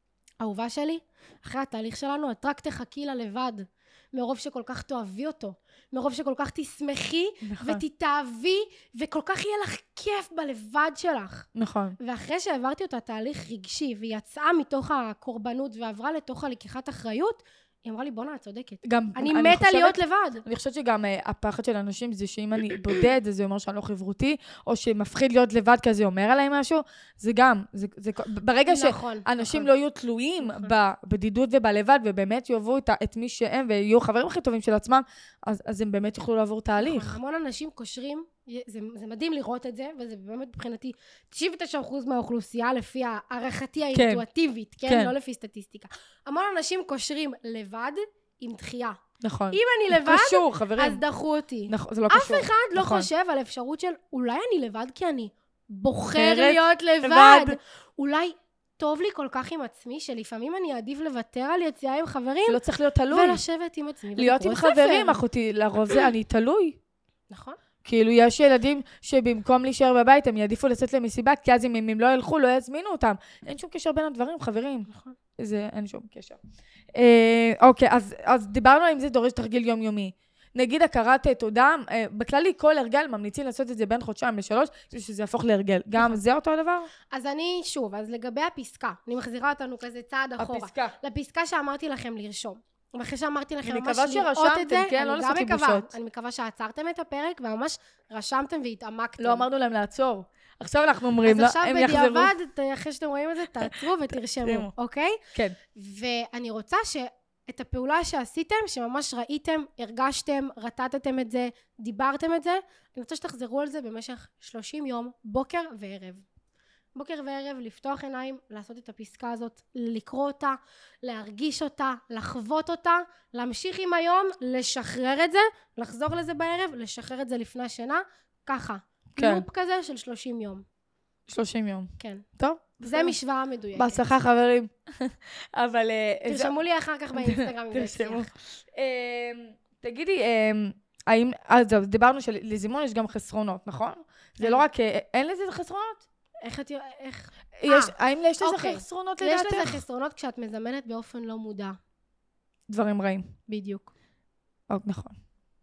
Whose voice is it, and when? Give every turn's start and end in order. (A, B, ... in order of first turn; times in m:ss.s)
0:00.4-0:11.5 A
0:07.4-0:07.8 B
0:11.5-0:12.0 B
0:12.0-0:20.4 A
0:18.8-0:37.2 B
0:28.7-0:29.7 A
0:30.4-0:30.7 A
0:36.8-0:49.0 A
0:43.9-0:44.2 B
0:44.8-0:45.1 B
0:49.2-0:51.0 B
0:49.5-1:02.6 A
0:51.7-0:53.1 B
0:56.1-0:57.6 B
1:02.5-1:03.4 B
1:03.1-1:05.2 A
1:04.2-1:06.8 B
1:07.3-1:07.6 A
1:07.8-1:16.4 B
1:14.9-1:15.2 A
1:16.9-1:26.9 B
1:27.1-1:39.4 A
1:30.4-1:31.0 B
1:33.6-1:35.9 B
1:39.2-1:42.3 B
1:41.2-1:45.2 A
1:44.4-1:44.7 B
1:45.7-1:56.2 A
1:56.9-2:10.6 A
2:09.2-2:09.4 B
2:11.3-2:13.2 B
2:12.0-2:12.2 A
2:12.8-2:14.0 A
2:13.7-2:16.5 B
2:16.2-2:18.3 A
2:17.1-2:26.0 B
2:24.4-2:24.6 A
2:26.4-2:31.8 A
2:27.6-2:29.8 B
2:32.7-2:33.3 B
2:33.5-2:33.9 A
2:34.7-2:35.2 B